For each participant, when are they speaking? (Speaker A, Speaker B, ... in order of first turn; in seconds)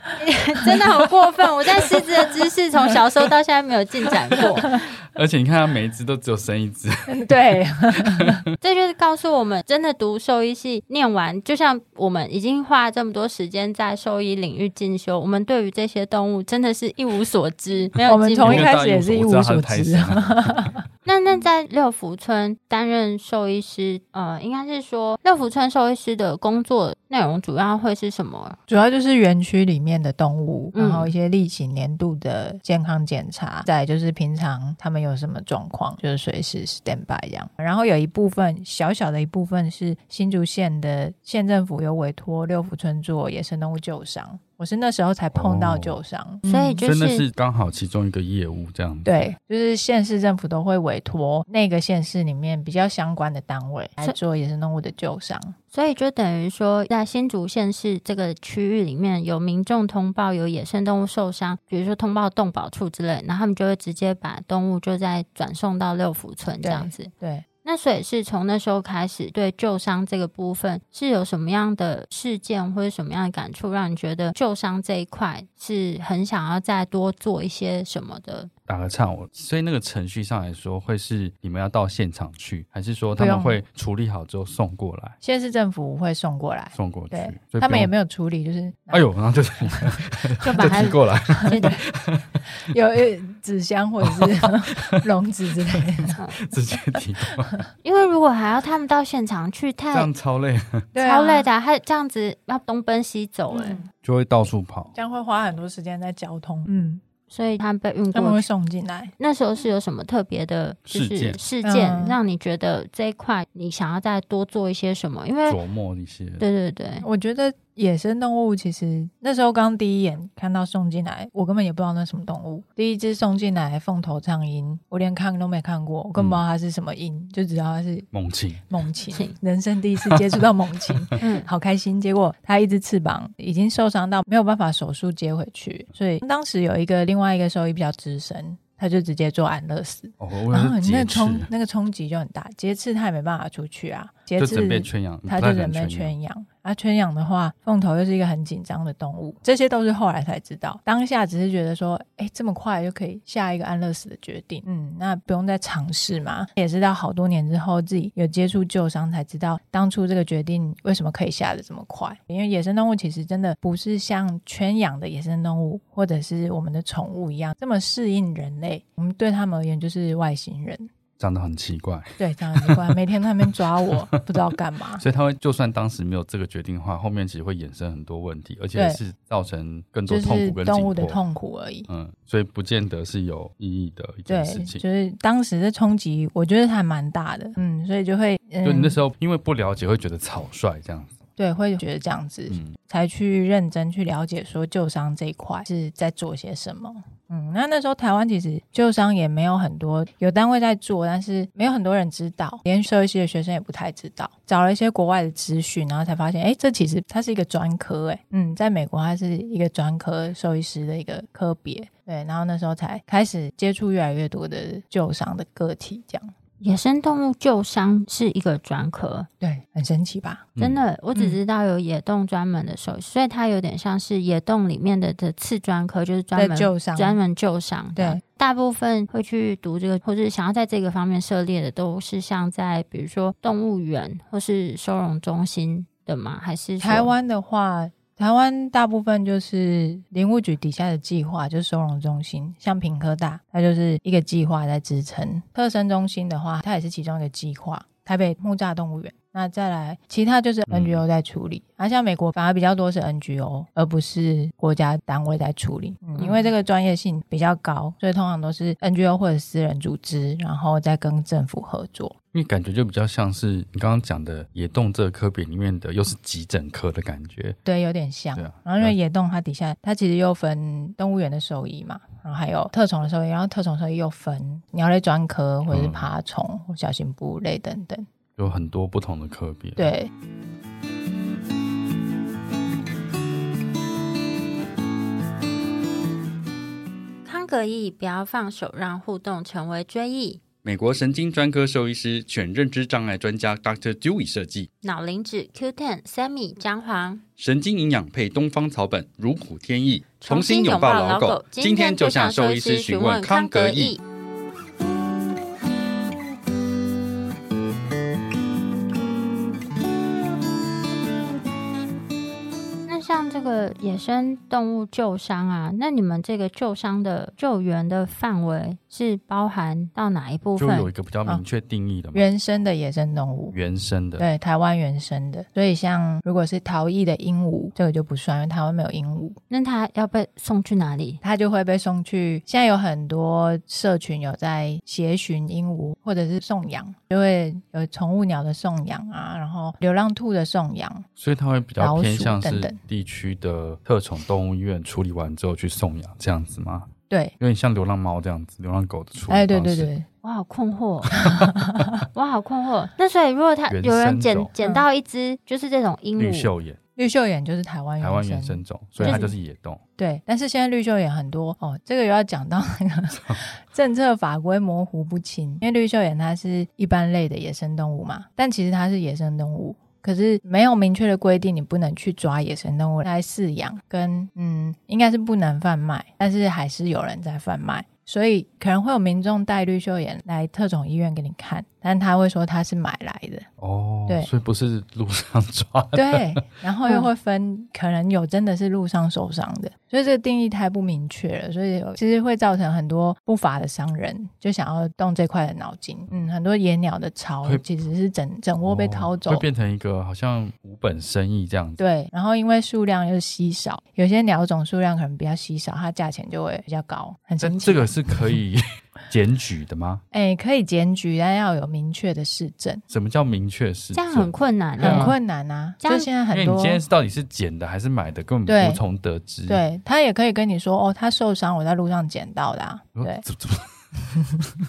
Speaker A: 0.1-4.8, 8.6-18.7, 21.0-28.6, 30.7-31.1, 46.5-47.2, 55.7-67.1, 67.6-78.5, 90.4-91.8, 97.8-100.1, 101.0-103.8, 107.3-108.4, 109.2-115.6, 116.4-117.0, 129.1-129.3, 131.2-131.5, 216.6-219.3, 220.6-237.1, 256.1-256.5, 287.2-290.4, 294.8-297.2, 300.2-304.0, 312.9-320.9, 329.5-331.2, 350.2-351.2, 352.1-356.5, 359.0-359.3, 413.9-415.1, 415.8-416.1
Speaker B: 4.4-7.3, 7.9-8.4, 18.4-20.7, 45.3-46.0, 46.8-49.2, 78.7-85.2, 86.7-87.9, 88.9-92.4, 94.0-95.0, 95.7-97.6, 99.9-100.9, 104.0-104.9, 110.9-111.4, 115.5-116.4, 126.2-126.4, 128.1-128.6, 130.0-131.1, 140.2-141.5, 144.4-146.1, 171.2-174.4, 175.0-181.2, 181.9-184.8, 188.6-191.1, 192.5-192.8, 250.7-251.0, 262.3-267.6, 268.4-268.9, 275.7-276.1, 278.4-279.9, 290.6-294.7, 297.4-304.0, 320.6-322.2, 323.5-324.3, 341.2-349.9, 351.2-351.9, 353.7-354.5, 356.2-356.8, 358.0-359.8, 383.6-386.4, 398.6-401.8, 407.4-410.0, 412.9-415.1, 416.3-419.6, 422.9-424.2
Speaker C: 7.1-8.4, 18.0-20.8, 28.7-46.8, 49.0-55.5, 66.6-67.5, 83.2-83.6, 85.2-89.1, 89.6-90.0, 90.5-90.8, 91.4-91.7, 92.7-96.2, 97.0-97.4, 100.9-101.5, 103.5-103.9, 104.9-107.0, 108.1-109.1, 111.6-112.2, 117.0-128.1, 128.7-170.9, 172.2-175.0, 178.7-179.0, 180.1-181.9, 184.3-189.0, 191.4-216.3, 219.4-220.5, 226.3-227.2, 227.9-228.2, 236.8-262.1, 267.6-278.1, 279.8-280.1, 322.1-323.6, 324.2-329.4, 331.2-341.1, 341.8-342.8, 347.1-347.3, 349.3-350.1, 351.2-351.9, 357.0-359.3, 360.0-383.5, 385.9-399.4, 401.8-407.9, 410.1-412.8, 414.8-416.8, 418.5-418.8, 419.5-423.2